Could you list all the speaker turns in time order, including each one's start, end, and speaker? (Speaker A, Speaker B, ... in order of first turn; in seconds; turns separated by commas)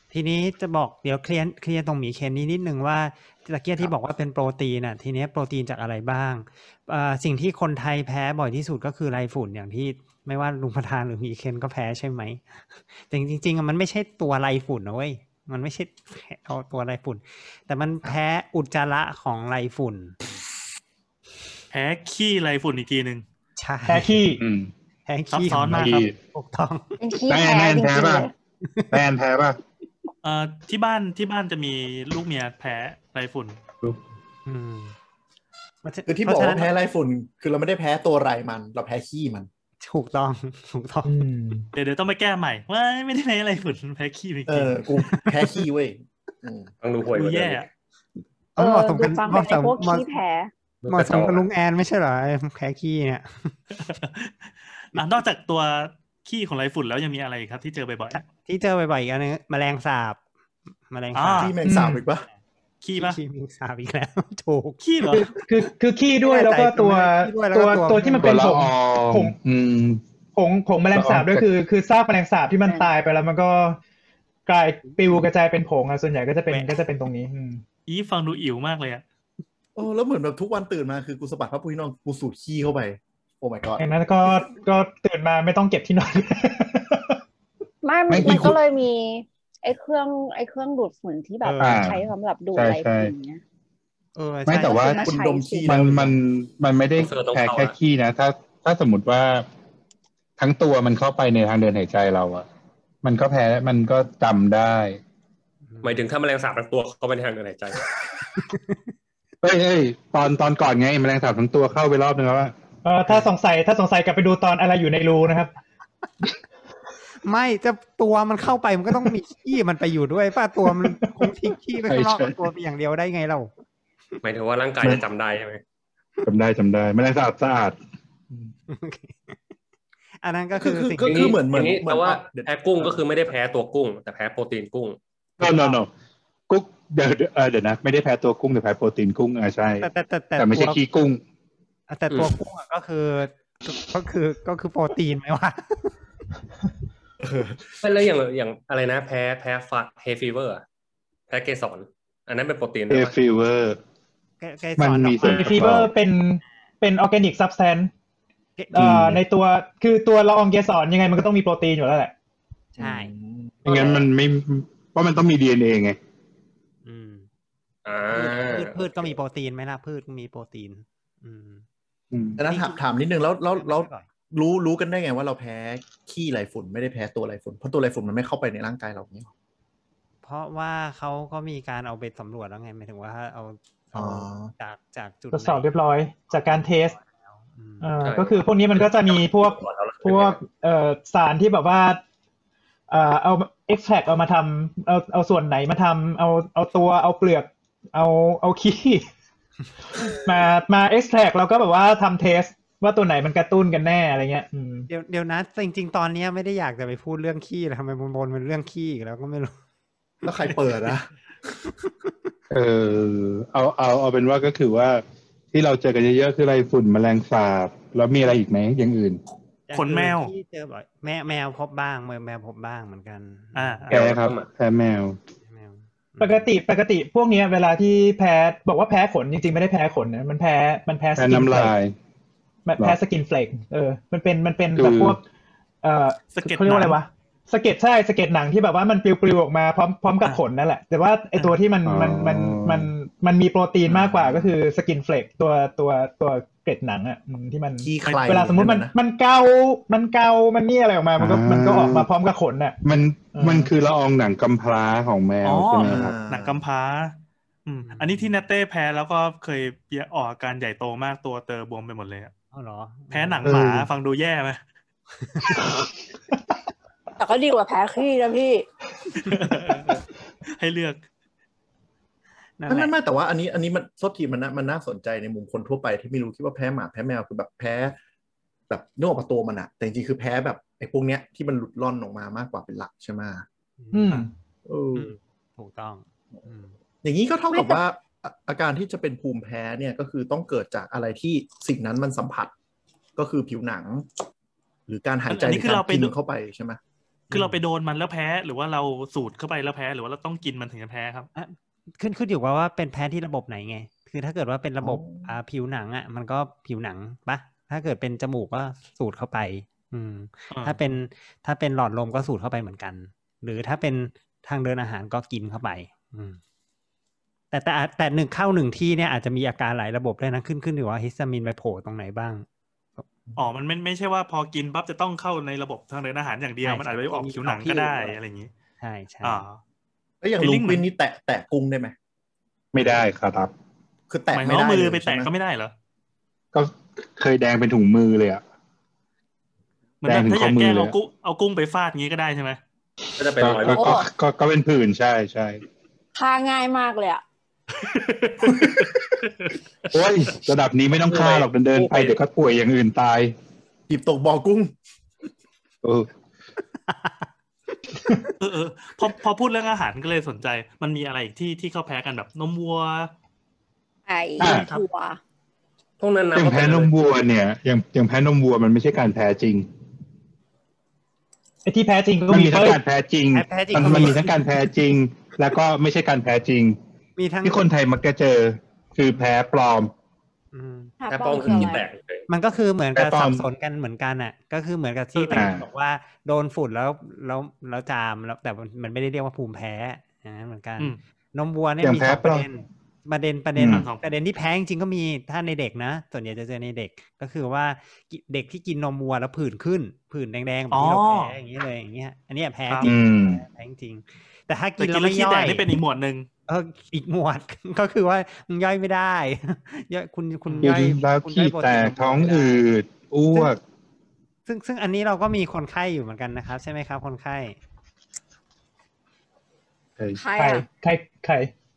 Speaker A: 0.1-20.1, Speaker B: 21.7-23.2, Speaker A: 23.6-24.2, Speaker C: 23.9-24.4, Speaker D: 24.4-24.7, Speaker A: 25.1-27.0, Speaker B: 25.3-26.1, Speaker D: 25.6-26.1, Speaker E: 27.0-28.3, Speaker D: 27.3-28.3, Speaker A: 28.6-29.0, Speaker D: 28.9-29.6, Speaker B: 30.2-33.6, Speaker A: 34.5-34.9, Speaker A: 35.8-36.7, Speaker F: 36.1-39.5, Speaker A: 39.8-41.1, Speaker C: 41.0-41.6, Speaker B: 41.7-44.9, Speaker F: 44.5-46.7, Speaker G: 46.8-47.6, Speaker B: 47.1-47.7, Speaker A: 48.6-50.0, Speaker E: 48.6-50.5, Speaker G: 50.8-51.5, Speaker A: 50.9-53.5, Speaker B: 53.7-54.3, Speaker B: 54.9-58.2, Speaker A: 58.1-60.2, Speaker A: 60.9-61.5, Speaker B: 61.1-61.5, Speaker F: 61.3-62.2, Speaker C: 61.6-62.0, Speaker B: 62.8-63.2, Speaker A: 63.0-64.8, Speaker B: 64.8-65.3, Speaker C: 65.0-69.3, Speaker A: 66.2-68.5, Speaker D: 68.2-70.0, Speaker C: 70.3-73.8, Speaker D: 70.9-71.5, Speaker C: 74.5-77.6, Speaker B: 77.9-79.0, Speaker F: 79.8-83.8, Speaker C: 83.8-87.2, Speaker E: 87.8-93.4, Speaker D: 88.1-88.6, Speaker A: 91.4-91.9, Speaker D: 91.6-93.1, Speaker A: 94.2-95.0, Speaker D: 94.5-95.0, Speaker E: 94.5-95.8, Speaker F: 94.9-96.2, Speaker D: 95.7-99.5, Speaker G: 97.0-97.7, Speaker D: 100.4-102.5, Speaker D: 103.0-105.0, Speaker A: 105.7-106.0, Speaker G: 105.8-107.9, Speaker A: 108.5-108.8, Speaker D: 109.4-112.5, Speaker C: 112.8-115.5, Speaker A: 117.2-123.5, Speaker C: 120.8-121.3, Speaker D: 121.9-122.4, Speaker G: 124.2-125.6, Speaker D: 126.2-127.8, Speaker A: 128.7-129.4, Speaker A: 130.2-131.2, Speaker F: 130.6-133.0, Speaker G: 131.0-135.0, Speaker D: 135.4-135.9, Speaker A: 135.4-135.8, Speaker D: 136.5-141.2, Speaker A: 139.8-140.8, Speaker A: 141.9-145.9, Speaker G: 147.8-150.6, Speaker G: 151.3-153.2, Speaker D: 152.9-153.8, Speaker A: 154.4-155.9, Speaker D: 154.8-155.9, Speaker C: 155.2-157.9, Speaker A: 158.6-158.9, Speaker C: 158.7-162.1, Speaker D: 158.8-159.2, Speaker A: 162.8-163.1, Speaker F: 162.8-163.9, Speaker D: 163.7-166.0, Speaker A: 166.8-167.3, Speaker G: 167.8-169.2, Speaker A: 168.1-171.6, Speaker D: 172.1-172.4, Speaker F: 172.4-179.3, Speaker A: 172.4-172.8, Speaker A: 173.5-174.1, Speaker A: 180.2-185.7, Speaker F: 183.9-184.5, Speaker C: 185.3-186.9, Speaker A: 187.0-187.9, Speaker C: 187.8-192.0, Speaker G: 188.0-190.4, Speaker C: 192.9-199.1, Speaker C: 199.9-204.9, Speaker A: 204.9-209.6, Speaker F: 210.2-211.1, Speaker D: 212.5-219.2, Speaker A: 219.7-223.9, Speaker B: 219.7-220.3, Speaker B: 223.5-224.0, Speaker G: 223.9-224.5, Speaker D: 223.9-225.2, Speaker A: 225.4-226.5, Speaker C: 226.2-231.7, Speaker D: 231.2-231.9, Speaker C: 232.7-235.2, Speaker D: 234.7-235.2, Speaker C: 235.8-252.8, Speaker B: 236.3-237.0, Speaker D: 241.8-242.9, Speaker F: 243.9-244.5, Speaker F: 247.8-248.9, Speaker D: 251.2-252.1, Speaker D: 252.8-256.1, Speaker C: 253.3-253.7, Speaker B: 255.4-257.1, Speaker F: 255.8-256.6, Speaker B: 257.6-262.3, Speaker A: 257.8-258.4, Speaker A: 262.5-263.7, Speaker B: 263.1-264.6, Speaker D: 263.4-263.9, Speaker A: 265.2-265.6, Speaker E: 267.2-268.6, Speaker B: 269.2-269.9, Speaker B: 270.6-271.0, Speaker A: 272.6-272.9, Speaker F: 272.7-278.0, Speaker F: 278.7-283.4, Speaker A: 283.8-284.3, Speaker C: 283.9-284.3, Speaker F: 284.7-285.1, Speaker A: 284.9-286.8, Speaker F: 287.0-292.5, Speaker E: 287.5-287.8, Speaker F: 293.2-294.1, Speaker F: 294.9-296.8, Speaker B: 295.3-296.1, Speaker A: 297.3-297.6, Speaker B: 297.3-301.3, Speaker A: 301.3-316.4, Speaker F: 304.8-305.3, Speaker B: 310.5-310.8, Speaker A: 317.5-322.4, Speaker B: 323.4-328.5, Speaker A: 326.6-328.2, Speaker A: 328.8-329.4, Speaker B: 329.2-329.6, Speaker F: 330.2-331.9, Speaker B: 330.4-330.8, Speaker D: 332.7-333.5, Speaker F: 334.1-335.3, Speaker B: 334.3-335.7, Speaker D: 336.5-338.4, Speaker B: 340.0-342.6, Speaker D: 340.0-340.9, Speaker G: 343.2-343.9, Speaker D: 343.4-345.6, Speaker E: 343.6-344.1, Speaker E: 346.1-347.2, Speaker G: 347.9-348.7, Speaker D: 349.9-353.3, Speaker G: 351.1-352.2, Speaker F: 353.9-354.7, Speaker D: 355.8-356.1, Speaker A: 356.9-357.2, Speaker B: 358.4-363.1, Speaker E: 364.1-365.2, Speaker D: 364.4-364.7, Speaker G: 366.0-366.9, Speaker D: 366.3-369.7, Speaker C: 371.6-372.8, Speaker D: 372.3-376.8, Speaker A: 373.3-374.4, Speaker A: 377.2-377.6, Speaker D: 377.4-379.9, Speaker A: 380.5-380.9, Speaker E: 381.0-381.8, Speaker G: 381.1-382.3, Speaker A: 381.4-381.7, Speaker A: 382.3-405.7, Speaker D: 382.9-383.5, Speaker B: 385.1-385.5, Speaker D: 385.3-385.6, Speaker D: 391.8-392.4, Speaker D: 393.6-393.8, Speaker B: 393.7-394.0, Speaker B: 400.7-401.3, Speaker D: 402.8-403.4, Speaker B: 404.8-406.3, Speaker A: 406.5-412.7, Speaker B: 410.5-410.7, Speaker D: 410.6-413.6, Speaker A: 414.5-417.6, Speaker E: 420.1-420.6, Speaker C: 420.4-421.5